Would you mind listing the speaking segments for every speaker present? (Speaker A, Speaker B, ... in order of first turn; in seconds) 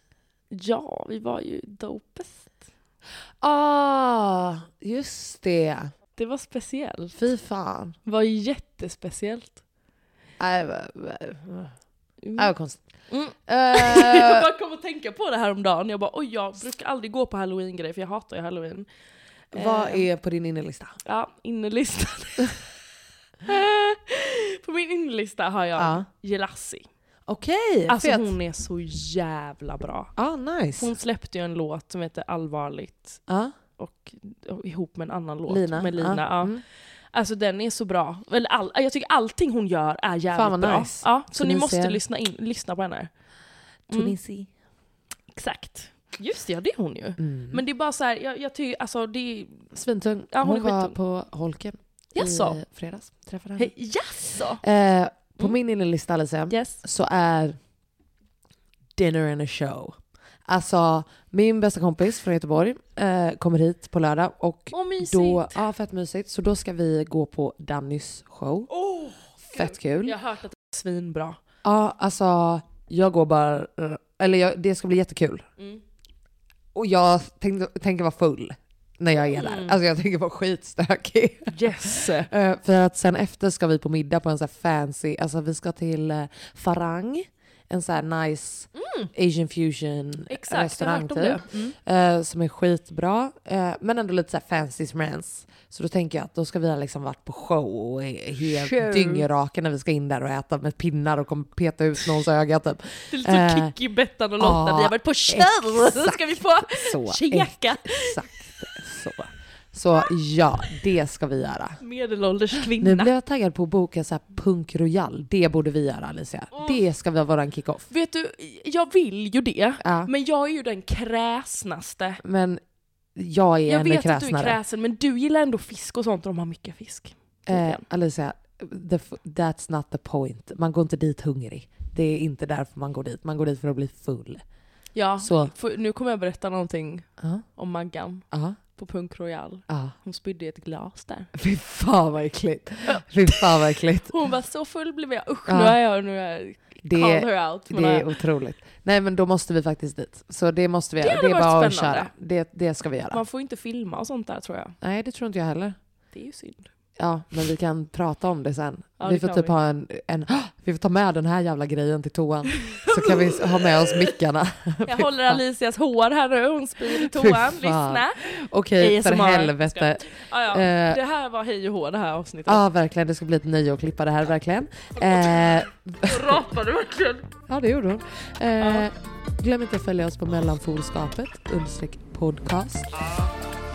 Speaker A: 0.5-2.5, 6.2-7.2, 8.1-9.6, 12.2-12.5, 13.1-18.9, 19.5-20.1, 21.0-22.6, 23.4-26.9, 27.9-30.1, 30.8-33.2, 33.8-36.6, 37.1-43.1, 43.9-44.1, 45.3-49.7, 50.3-51.0, 52.1-52.6, 53.6-54.6, 56.5-56.8, 64.7-65.5, 68.7-71.4, 79.2-79.8, 81.5-82.3, 88.8-89.1, 90.3-91.8, 98.4-99.3, 103.1-108.2, 111.8-113.1, 117.9-122.2, 123.7-127.8, 134.9-141.3, 142.9-148.1, 151.0-152.1, 153.1-154.8, 156.1-156.7, 159.0-159.6, 162.6-164.2, 164.8-168.2, 168.8-172.6, 175.0-177.3, 178.6-178.9, 182.9-183.3
Speaker B: 3.4-5.9, 7.2-8.0, 10.4-11.7, 12.4-12.8, 13.5-14.5, 19.5-21.0, 25.8-26.1, 27.3-28.3, 30.2-30.9, 33.3-33.5, 35.5-36.6, 40.3-42.0, 43.9-44.5, 47.2-47.6, 49.7-53.7, 54.6-57.6, 59.0-68.7, 69.5-70.2, 71.6-75.5, 76.7-103.7, 104.4-111.8, 112.7-117.9, 119.8-120.1, 122.2-122.6, 123.2-124.6, 127.5-134.4, 135.2-135.5, 137.2-137.5, 138.3-138.6, 139.7-139.9, 141.3-144.1, 145.5-145.8, 146.8-153.2, 154.8-155.8, 157.0-165.4, 166.9-171.0, 172.5-176.4, 177.5-182.9